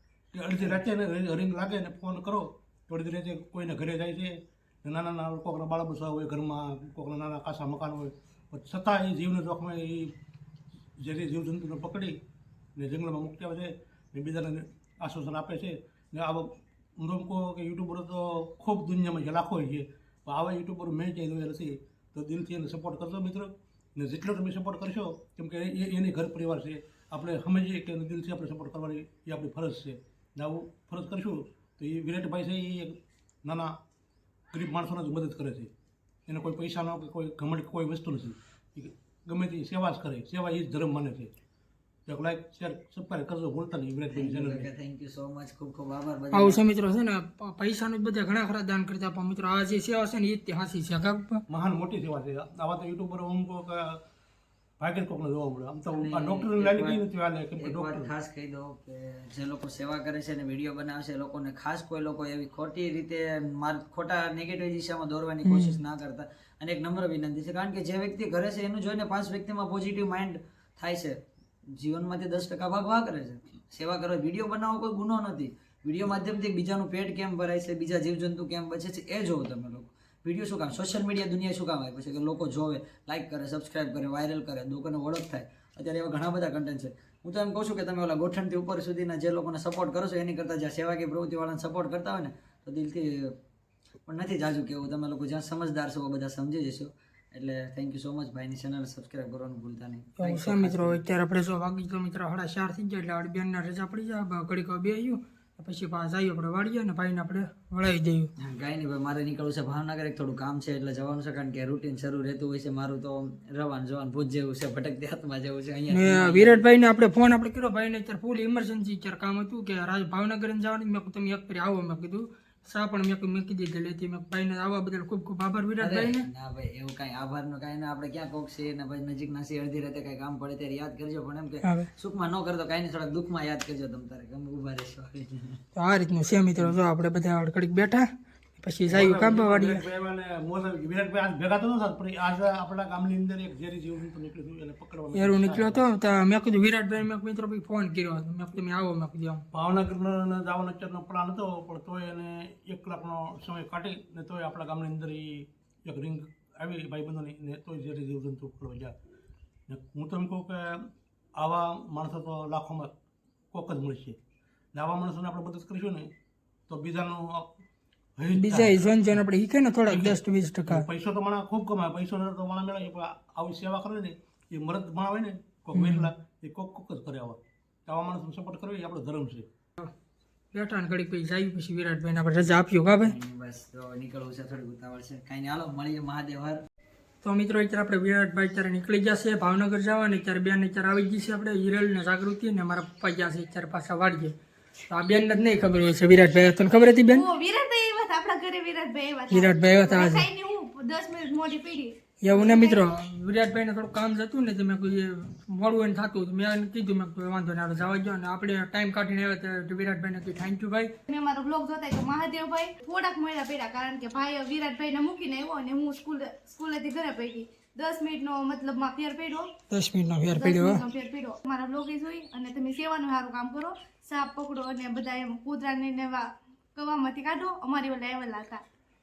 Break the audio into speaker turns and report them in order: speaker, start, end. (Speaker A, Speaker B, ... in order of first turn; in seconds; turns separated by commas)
Speaker A: 0.3-10.1, Speaker A: 11.0-12.1, Speaker A: 12.8-33.7, Speaker A: 34.5-35.7, Speaker A: 36.3-41.3, Speaker A: 42.1-44.7, Speaker B: 44.1-46.6, Speaker C: 46.3-51.4, Speaker A: 51.5-54.0, Speaker A: 54.8-58.1, Speaker B: 55.9-57.0, Speaker B: 57.6-71.2, Speaker C: 65.4-65.8, Speaker B: 71.8-93.3, Speaker B: 94.1-101.0, Speaker C: 100.2-108.3, Speaker B: 108.4-116.6, Speaker C: 115.9-126.2, Speaker B: 125.8-135.6, Speaker C: 131.6-131.9, Speaker C: 135.8-139.8, Speaker A: 138.9-145.8, Speaker C: 145.1-149.4, Speaker A: 149.5-158.9, Speaker A: 159.7-160.8, Speaker A: 161.4-162.9, Speaker A: 163.5-164.2, Speaker A: 164.7-166.1, Speaker A: 166.7-167.5, Speaker A: 168.2-168.8, Speaker C: 168.3-170.8, Speaker A: 169.9-179.5, Speaker C: 175.7-176.1, Speaker C: 180.5-183.1, Speaker B: 183.0-186.6, Speaker C: 187.2-194.3, Speaker C: 194.9-197.2, Speaker D: 197.1-202.8, Speaker C: 199.3-200.2, Speaker C: 202.2-210.9, Speaker D: 211.1-219.5, Speaker C: 219.7-220.8, Speaker D: 220.3-228.6